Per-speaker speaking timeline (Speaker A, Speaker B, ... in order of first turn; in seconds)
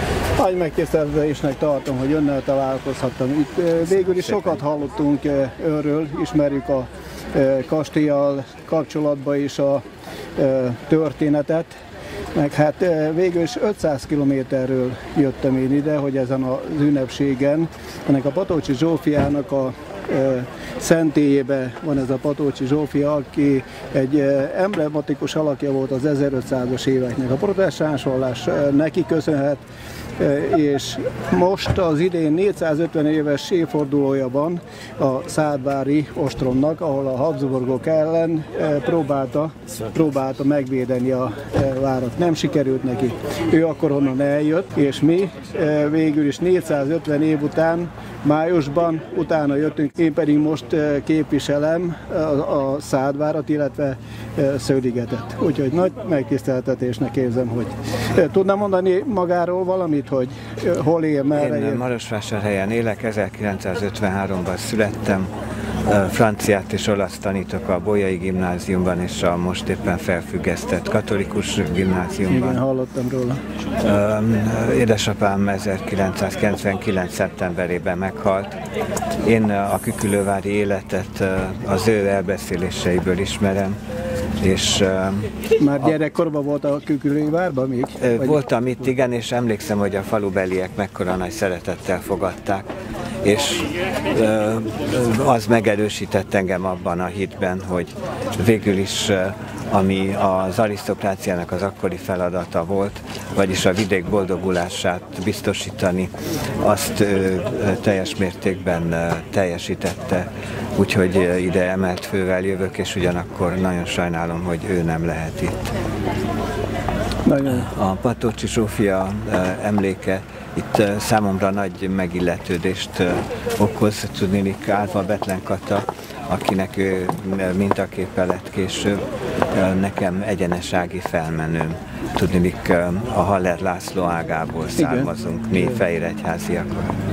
Speaker A: 0.4-9.8, 10.3-11.7, 12.3-29.6, 30.2-61.8, 72.3-73.4, 85.5-88.4, 117.2-117.7, 134.7-135.8
Speaker B: 61.3-65.3, 65.8-72.6, 73.8-78.5, 79.2-83.8, 84.4-85.3, 88.0-92.7, 93.2-115.6, 117.4-136.9